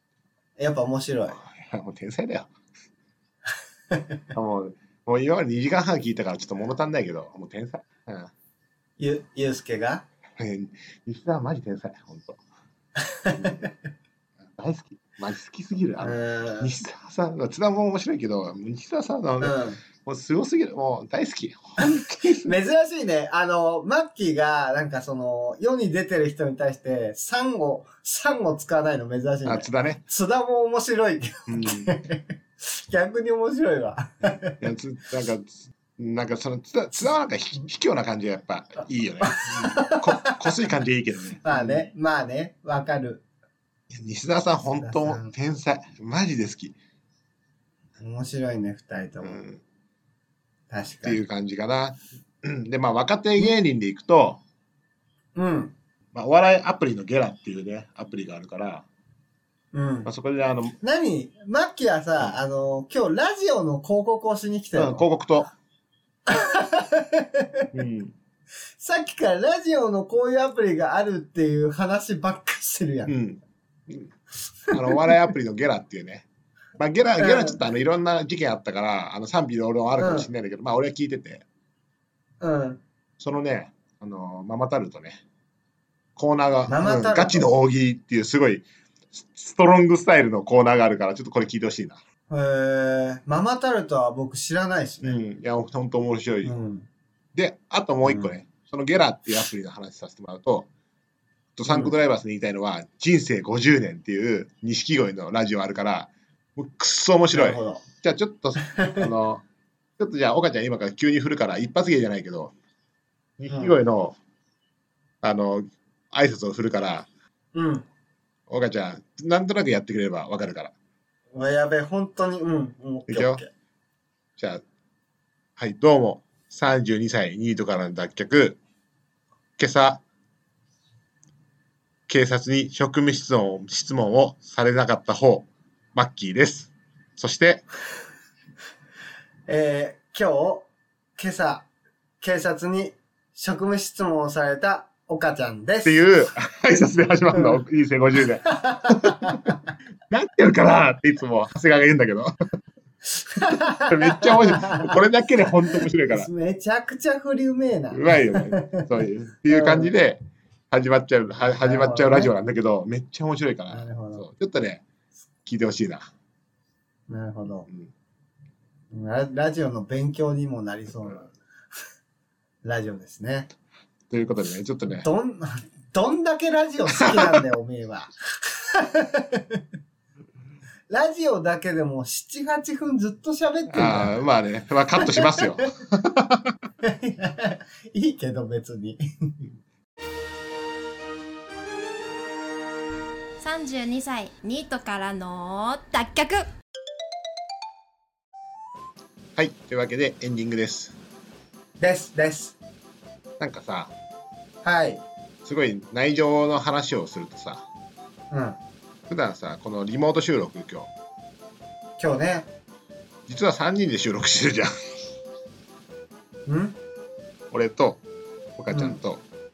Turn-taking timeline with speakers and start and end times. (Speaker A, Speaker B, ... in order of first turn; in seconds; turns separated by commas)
Speaker A: 0.6-1.4, Speaker B: 1.3-2.5, Speaker B: 4.3-8.3, Speaker A: 9.0-10.0, Speaker B: 10.4-12.4, Speaker A: 13.0-13.7, Speaker B: 13.3-13.6, Speaker B: 14.5-22.5, Speaker A: 16.0-16.7, Speaker A: 19.4-19.8, Speaker A: 21.8-34.6, Speaker B: 29.4-30.0, Speaker B: 31.5-31.9, Speaker B: 34.6-41.9, Speaker A: 39.2-40.5, Speaker A: 41.4-43.2, Speaker B: 43.9-46.8, Speaker A: 44.8-45.3, Speaker A: 48.0-49.4, Speaker B: 49.2-49.6, Speaker A: 50.7-51.2, Speaker B: 51.0-54.4, Speaker A: 55.3-55.7, Speaker B: 56.1-58.8, Speaker A: 59.7-60.1, Speaker B: 60.0-60.8, Speaker A: 60.8-65.0, Speaker B: 64.7-65.5, Speaker A: 66.3-67.7, Speaker B: 67.7-68.1, Speaker A: 68.8-73.1, Speaker B: 73.1-74.1, Speaker A: 74.7-75.1, Speaker B: 74.7-76.2, Speaker B: 76.8-81.4, Speaker A: 77.2-77.6, Speaker A: 80.0-80.3, Speaker A: 82.4-82.8, Speaker B: 83.2-85.2, Speaker B: 86.2-92.0, Speaker A: 86.7-87.5, Speaker A: 92.3-95.2, Speaker B: 95.0-96.5, Speaker A: 96.4-96.9, Speaker B: 97.3-100.7, Speaker A: 98.0-98.3, Speaker B: 101.5-109.4, Speaker A: 101.7-101.9, Speaker A: 107.3-107.8, Speaker A: 108.6-109.1, Speaker B: 110.0-112.5, Speaker B: 113.4-114.2, Speaker A: 113.5-113.8, Speaker B: 115.2-117.1, Speaker A: 117.5-117.8, Speaker B: 118.5-120.7, Speaker A: 121.3-123.5, Speaker B: 123.1-123.4, Speaker B: 124.4-124.6, Speaker B: 125.6-128.6, Speaker B: 129.6-130.0, Speaker B: 132.1-137.6, Speaker A: 139.5-141.7, Speaker A: 142.2-146.0, Speaker B: 145.8-149.5, Speaker A: 147.3-147.6, Speaker A: 148.4-149.7, Speaker B: 150.1-152.3, Speaker A: 153.2-158.9, Speaker B: 153.9-156.3, Speaker B: 157.9-164.8, Speaker A: 159.5-159.9, Speaker A: 161.5-162.3, Speaker A: 163.7-164.2, Speaker B: 165.4-166.1, Speaker A: 167.1-167.7, Speaker A: 168.9-171.3, Speaker A: 172.6-173.5, Speaker B: 174.1-175.1, Speaker A: 174.9-179.6, Speaker B: 177.0-177.4, Speaker A: 180.9-184.2, Speaker B: 183.7-186.6, Speaker A: 185.0-185.5, Speaker A: 186.8-189.3, Speaker C: 193.4-196.4, Speaker B: 199.3-200.9, Speaker A: 201.8-202.6, Speaker B: 203.4-203.9, Speaker A: 204.6-205.0, Speaker B: 205.4-207.6, Speaker A: 208.3-208.6, Speaker B: 209.1-210.9, Speaker A: 212.0-212.5, Speaker B: 213.3-214.7, Speaker A: 216.5-216.8, Speaker B: 217.5-218.0, Speaker B: 218.6-219.2, Speaker A: 218.7-219.0